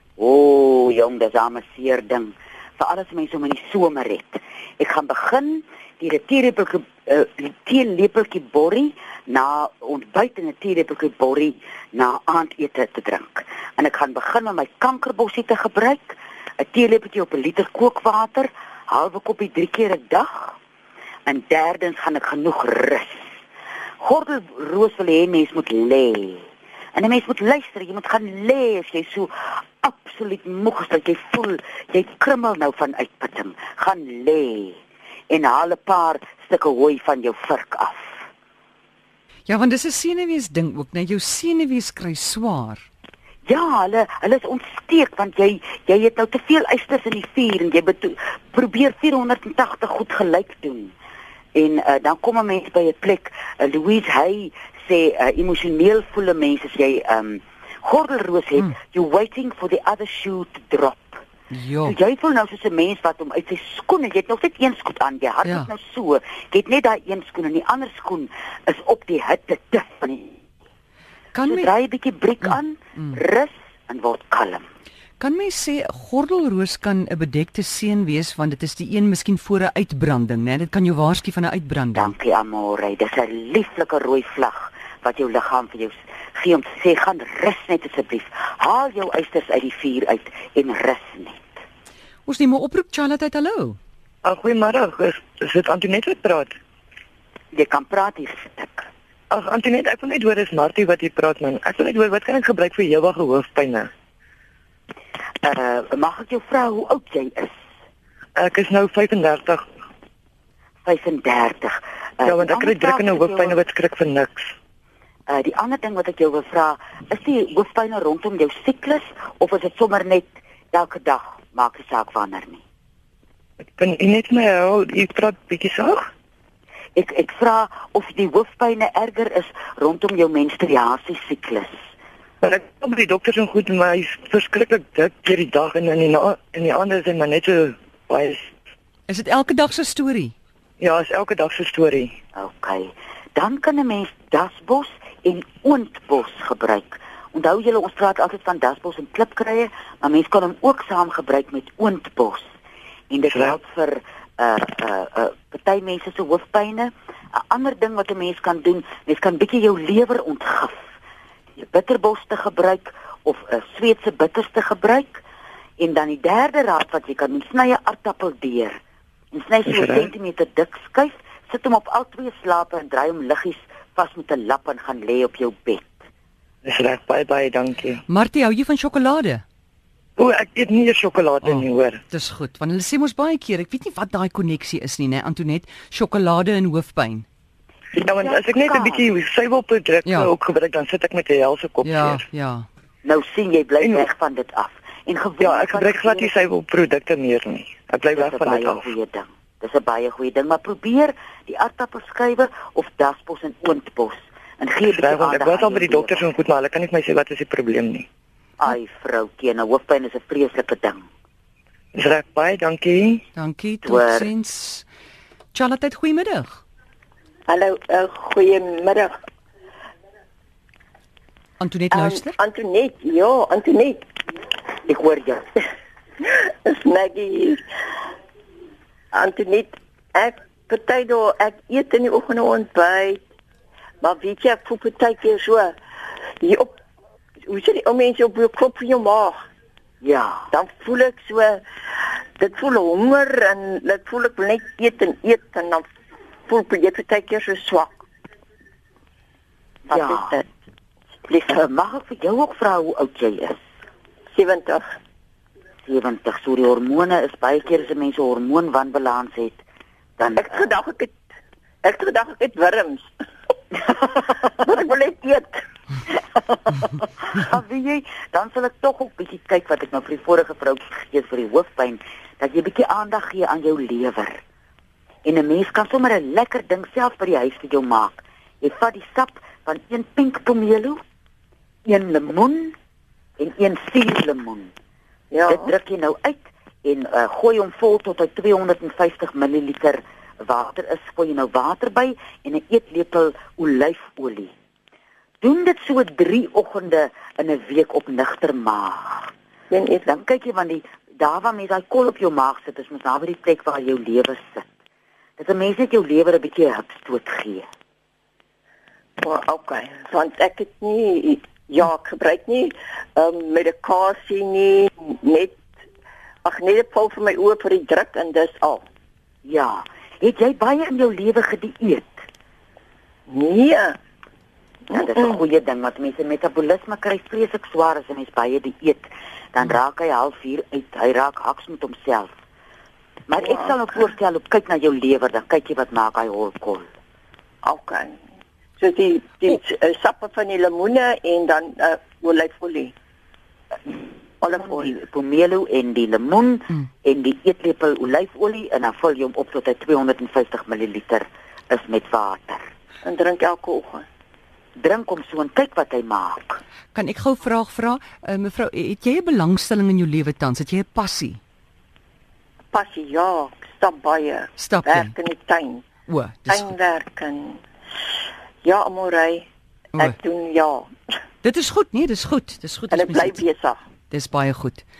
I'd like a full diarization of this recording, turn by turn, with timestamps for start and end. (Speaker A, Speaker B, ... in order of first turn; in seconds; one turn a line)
Speaker A: 0.2-20.6
Speaker A: 21.3-23.2
Speaker A: 24.0-34.8
Speaker A: 35.3-38.2
Speaker B: 39.5-42.9
Speaker A: 43.5-50.9
Speaker A: 51.5-61.2
Speaker B: 61.5-62.0
Speaker A: 61.8-70.4
Speaker B: 65.5-65.7
Speaker B: 71.3-71.7
Speaker A: 71.5-74.7
Speaker B: 75.2-82.1
Speaker A: 82.0-91.6
Speaker B: 92.3-93.8
Speaker C: 94.2-96.5
Speaker A: 97.5-98.9
Speaker C: 99.3-103.9
Speaker A: 105.4-107.5
Speaker C: 108.4-109.6
Speaker A: 110.8-113.6
Speaker C: 112.2-114.4
Speaker A: 115.3-122.6
Speaker C: 123.8-126.1
Speaker A: 127.0-131.7
Speaker C: 132.4-138.5
Speaker B: 139.1-140.3
Speaker C: 140.8-142.1
Speaker A: 142.3-152.5
Speaker A: 153.1-160.8
Speaker C: 153.3-153.6
Speaker A: 161.6-165.2
Speaker A: 165.8-168.8
Speaker A: 169.3-175.9
Speaker C: 169.7-170.1
Speaker C: 176.7-178.0
Speaker B: 178.1-179.4
Speaker C: 180.2-182.0
Speaker B: 181.4-187.3
Speaker C: 187.9-192.2
Speaker A: 188.2-189.1
Speaker B: 190.1-190.3
Speaker B: 191.8-192.7
Speaker A: 193.0-196.4
Speaker C: 195.4-198.9
Speaker A: 198.1-206.2
Speaker C: 204.9-208.1
Speaker A: 208.6-211.0
Speaker C: 211.9-213.2
Speaker B: 213.3-214.9
Speaker A: 213.8-214.3
Speaker B: 215.5-216.6
Speaker D: 217.5-219.1
Speaker B: 221.6-222.4
Speaker D: 221.9-224.0
Speaker A: 224.9-225.5
Speaker D: 226.2-227.7
Speaker D: 229.1-233.2
Speaker D: 234.0-235.7
Speaker D: 236.4-236.7
Speaker D: 237.5-239.4
Speaker A: 240.0-240.4
Speaker D: 240.5-241.6
Speaker D: 242.4-245.9
Speaker D: 246.5-248.0
Speaker D: 249.9-250.4
Speaker A: 249.9-250.4
Speaker A: 251.3-253.6
Speaker D: 254.3-254.8
Speaker A: 255.9-259.6
Speaker A: 260.2-260.7
Speaker D: 260.4-261.1
Speaker D: 261.8-263.1
Speaker D: 264.1-265.6
Speaker A: 266.6-274.4
Speaker A: 275.2-281.0
Speaker A: 281.9-282.7
Speaker A: 283.4-284.7
Speaker D: 285.3-285.7
Speaker A: 285.5-294.5
Speaker A: 295.4-299.3
Speaker D: 299.7-300.1
Speaker A: 300.1-304.6
Speaker A: 305.4-307.7
Speaker D: 309.2-315.6
Speaker D: 316.4-318.8
Speaker A: 319.4-322.2
Speaker D: 323.3-324.0
Speaker A: 324.9-332.3
Speaker D: 325.0-325.4
Speaker A: 333.3-336.9
Speaker D: 333.4-333.7
Speaker D: 337.6-338.2
Speaker D: 338.8-342.9
Speaker D: 344.4-344.9
Speaker A: 344.5-352.7
Speaker D: 353.1-354.1
Speaker A: 354.8-356.6
Speaker B: 356.9-361.4
Speaker D: 362.7-365.9
Speaker B: 364.6-365.1
Speaker B: 366.1-366.8
Speaker D: 366.5-367.6
Speaker D: 368.6-369.5
Speaker D: 370.0-370.9
Speaker B: 371.4-373.4
Speaker D: 372.9-373.8
Speaker B: 374.1-374.9